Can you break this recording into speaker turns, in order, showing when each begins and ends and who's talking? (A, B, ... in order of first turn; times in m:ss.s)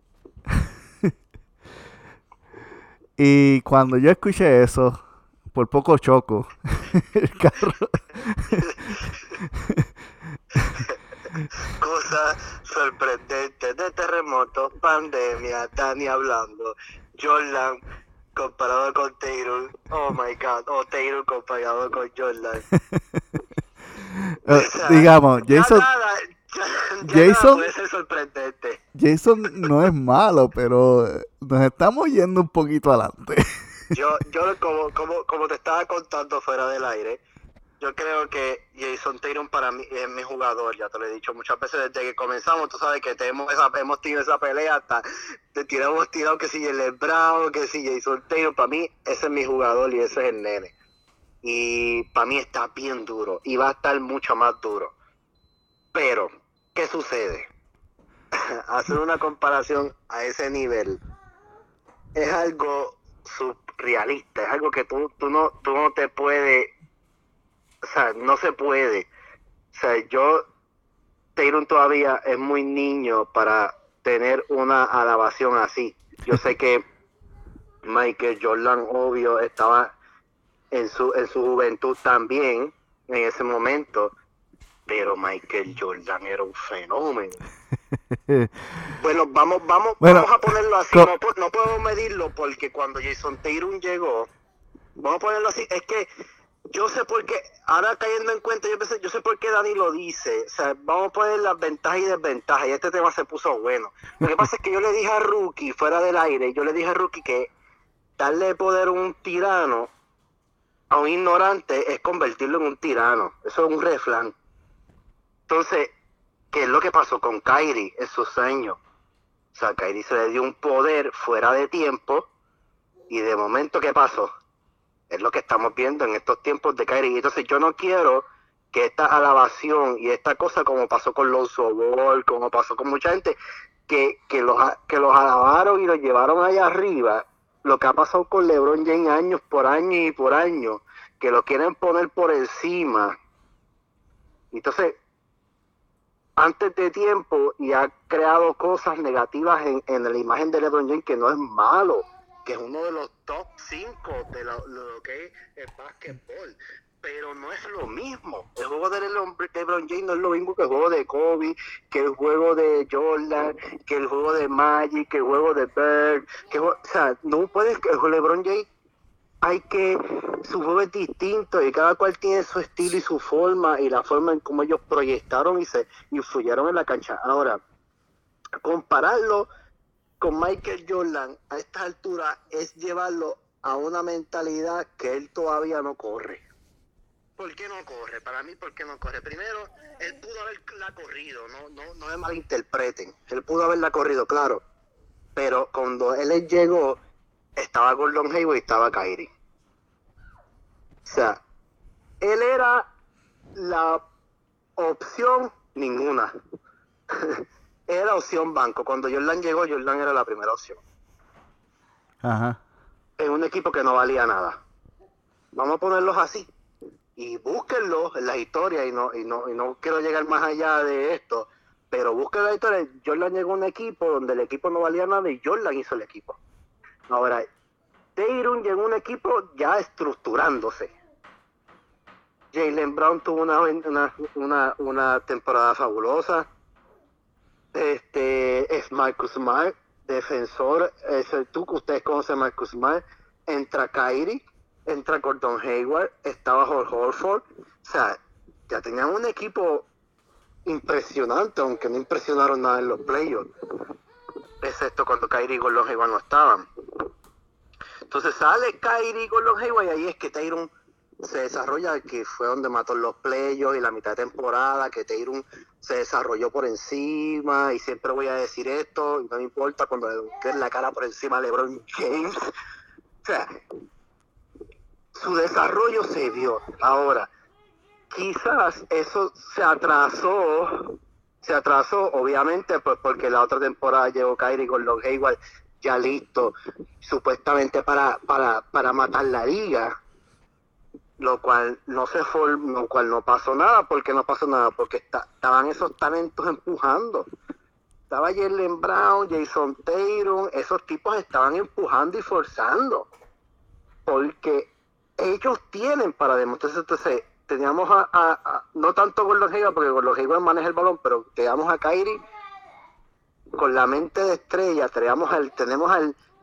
0:00.5-0:01.1 A
0:03.2-0:05.0 A
0:05.5-0:08.8 A
0:08.6-0:09.2 B
0:09.4-0:09.9 A
0:10.7-0:11.0 B
0:11.5-0:17.8 B
0:18.4-0:22.7 B
0:22.7-0:23.2 A
0:24.1-0:25.9 A
0:24.5-0:28.8 B
0:27.0-0:27.6 A
0:29.0-0:33.4 A
0:33.9-0:37.2 B
0:37.8-0:50.7 B
0:51.4-0:54.9 B
0:55.9-0:57.5 B
0:58.3-1:01.0 B
1:02.2-1:06.7 B
1:07.8-1:09.1 B
1:09.7-1:10.4 B
1:11.4-1:16.8 B
1:17.8-1:20.0 B
1:20.7-1:24.1 B
1:24.9-1:27.4 B
1:28.1-1:28.9 A
1:28.9-1:34.3 B
1:30.0-1:30.3 A
1:35.0-1:36.1 B
1:36.7-1:47.5 B
1:48.2-1:49.9 B
1:50.9-1:54.4 B
1:55.5-1:55.9 B
1:56.5-1:58.8 B
1:59.5-2:02.3 B
2:03.1-2:04.3 B
2:05.1-2:13.4 B
2:13.9-2:23.2 B
2:24.5-2:25.0 B
2:26.4-2:48.7 B
2:49.4-2:57.6 B
2:58.6-2:59.5 B
3:00.2-3:06.4 B
3:07.4-3:14.6 B
3:15.4-3:17.0 B
3:17.6-3:19.3 B
3:21.1-3:21.4 B
3:22.2-3:22.9 B
3:23.6-3:24.0 B
3:24.8-3:26.3 B
3:27.1-3:30.8 B
3:32.2-3:32.6 A
3:33.2-3:34.6 B
3:35.6-3:36.5 B
3:37.2-3:46.4 B
3:47.1-3:47.4 B
3:48.2-3:50.9 B
3:52.5-3:56.5 B
3:57.7-4:09.9 B
4:10.7-4:13.5 B
4:14.6-4:16.7 B
4:18.1-4:20.7 B
4:21.2-4:32.5 B
4:33.2-4:33.5 B
4:35.1-4:37.3 B
4:38.1-4:49.9 B
4:51.2-4:57.3 B
4:58.1-5:03.1 B
5:04.1-5:12.2 B
5:13.6-5:16.2 B